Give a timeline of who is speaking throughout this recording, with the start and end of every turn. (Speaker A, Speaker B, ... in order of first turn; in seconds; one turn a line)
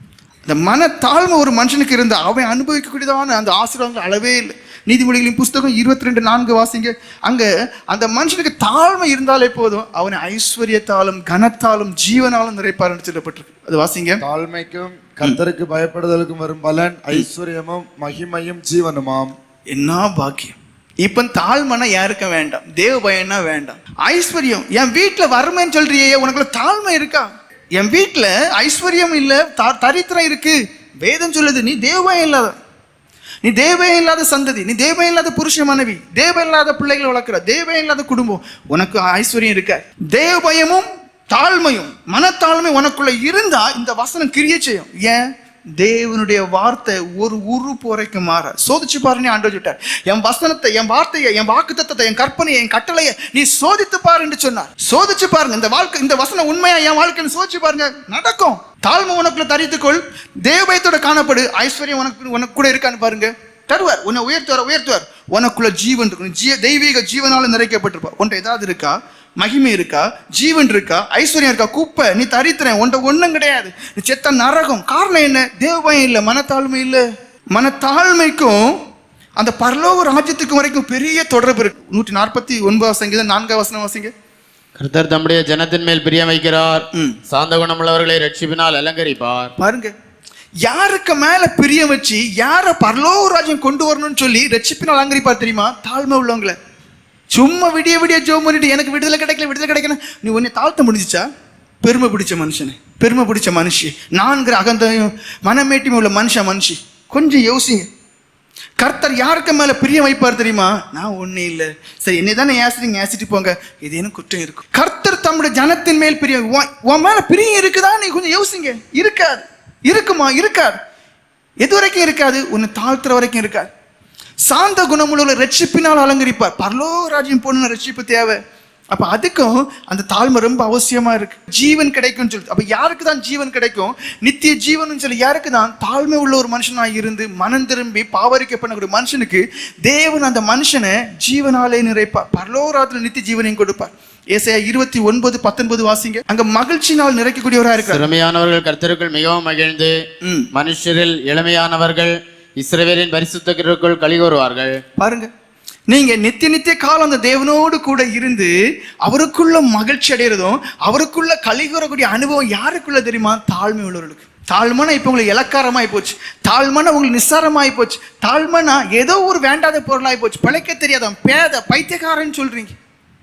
Speaker A: 0.5-14.2
Speaker B: 14.2-19.3
Speaker A: 19.7-32.5
Speaker A: 33.4-45.2
Speaker A: 45.8-78.8
Speaker A: 79.4-84.1
Speaker C: 84.8-89.5
Speaker A: 89.6-89.9
Speaker A: 90.7-96.6
Speaker A: 97.3-101.2
Speaker A: 101.8-107.9
Speaker A: 108.8-120.8
Speaker A: 121.6-123.7
Speaker A: 124.4-128.4
Speaker A: 128.9-148.0
Speaker C: 147.8-149.9
Speaker A: 150.2-150.5
Speaker C: 150.5-154.8
Speaker A: 155.0-155.3
Speaker A: 155.9-172.7